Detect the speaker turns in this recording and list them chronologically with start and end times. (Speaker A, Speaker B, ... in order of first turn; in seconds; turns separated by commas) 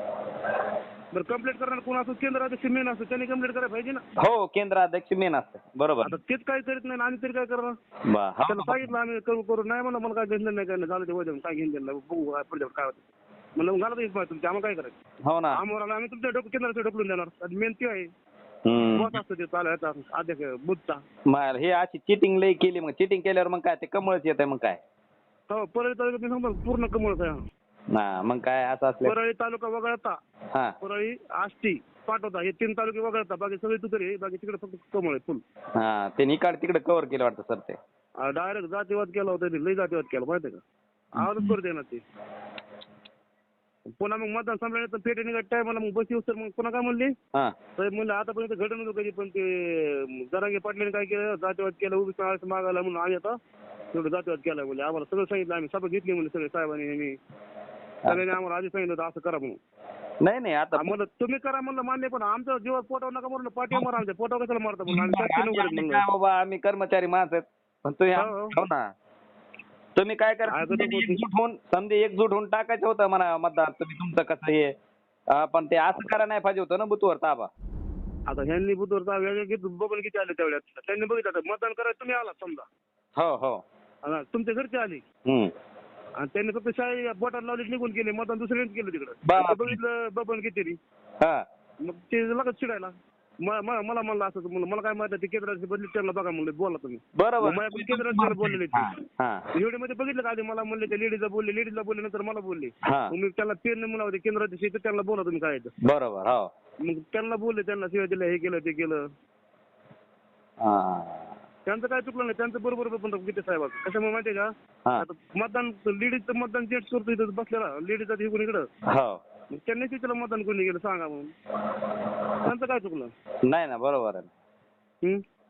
Speaker A: 1.1-4.0, Speaker B: 4.2-6.2, Speaker A: 6.0-7.7, Speaker B: 8.1-8.9, Speaker A: 8.5-13.0, Speaker A: 13.6-15.0, Speaker B: 15.3-15.6, Speaker A: 15.5-18.1, Speaker B: 18.6-19.2, Speaker A: 18.9-21.0, Speaker B: 21.3-24.8, Speaker A: 25.5-27.4, Speaker B: 27.9-29.2, Speaker A: 29.0-30.2, Speaker A: 30.8-35.4, Speaker B: 35.8-37.8, Speaker A: 38.2-40.6, Speaker A: 41.1-42.0, Speaker B: 41.2-41.5, Speaker A: 43.9-47.1, Speaker A: 47.8-53.4, Speaker A: 53.9-57.2, Speaker B: 58.0-58.3, Speaker A: 58.1-59.6, Speaker B: 60.2-61.0, Speaker A: 60.7-66.0, Speaker B: 64.9-68.8, Speaker A: 68.2-68.6, Speaker B: 70.0-74.7, Speaker A: 70.5-71.2, Speaker B: 75.3-77.5, Speaker A: 78.3-82.7, Speaker B: 83.2-83.6, Speaker A: 84.0-85.0, Speaker B: 85.2-85.5, Speaker A: 86.2-90.8, Speaker B: 89.2-89.8, Speaker A: 91.8-99.0, Speaker B: 97.2-99.4, Speaker A: 99.5-105.7, Speaker B: 102.8-103.1, Speaker B: 105.8-106.5, Speaker A: 106.8-109.0, Speaker B: 110.6-111.3, Speaker A: 111.7-118.7, Speaker B: 118.9-119.2, Speaker A: 119.5-121.3, Speaker A: 122.4-123.1, Speaker B: 123.5-124.3